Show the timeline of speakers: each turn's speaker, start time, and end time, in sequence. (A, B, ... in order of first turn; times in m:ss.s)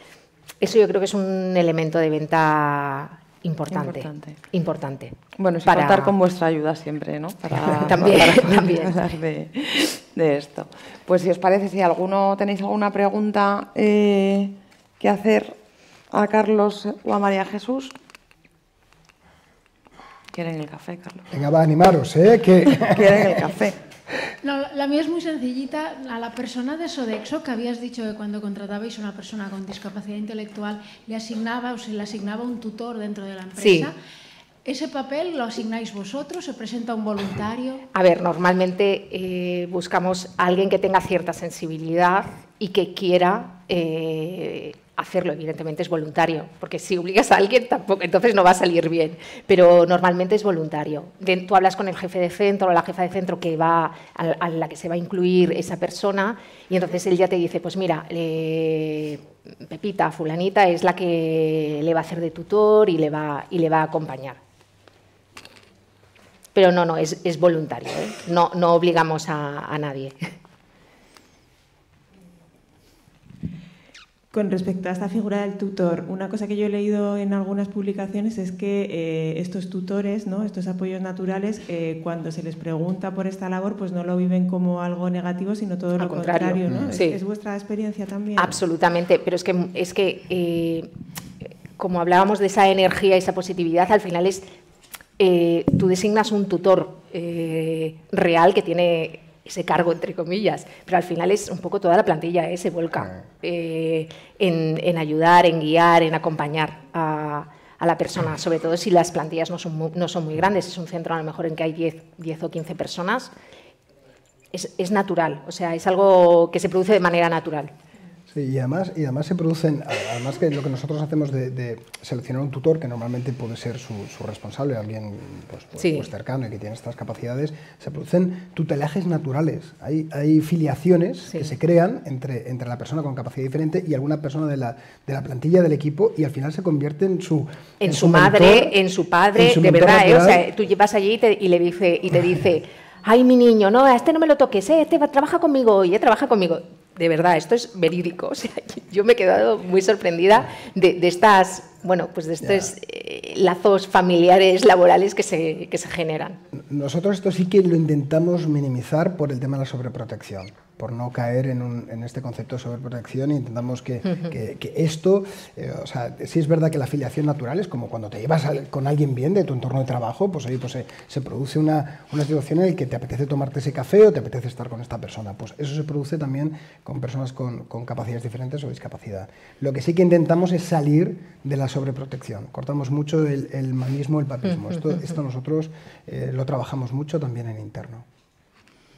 0:00.6-0:06.1 A
0:03.7-0:04.4 B
0:05.4-0:15.6 B
0:07.6-0:08.9 A
0:16.1-0:18.0 B
0:20.3-0:21.3 B
0:21.3-0:23.4 C
0:22.8-0:23.8 B
0:24.4-0:34.0 D
0:33.6-0:33.9 A
0:34.6-0:37.8 D
0:37.9-1:04.4 A
1:06.6-1:10.3 A
1:14.3-1:28.6 E
1:26.0-1:27.2 A
1:26.7-1:26.9 C
1:28.4-1:30.9 A
1:31.4-1:34.4 A
1:35.2-1:53.3 A
1:54.5-1:57.7 A
1:58.3-2:18.8 C
2:05.8-2:06.1 A
2:17.8-2:36.4 A
2:19.4-2:20.4 C
2:32.4-2:32.7 C
2:36.5-3:08.1 C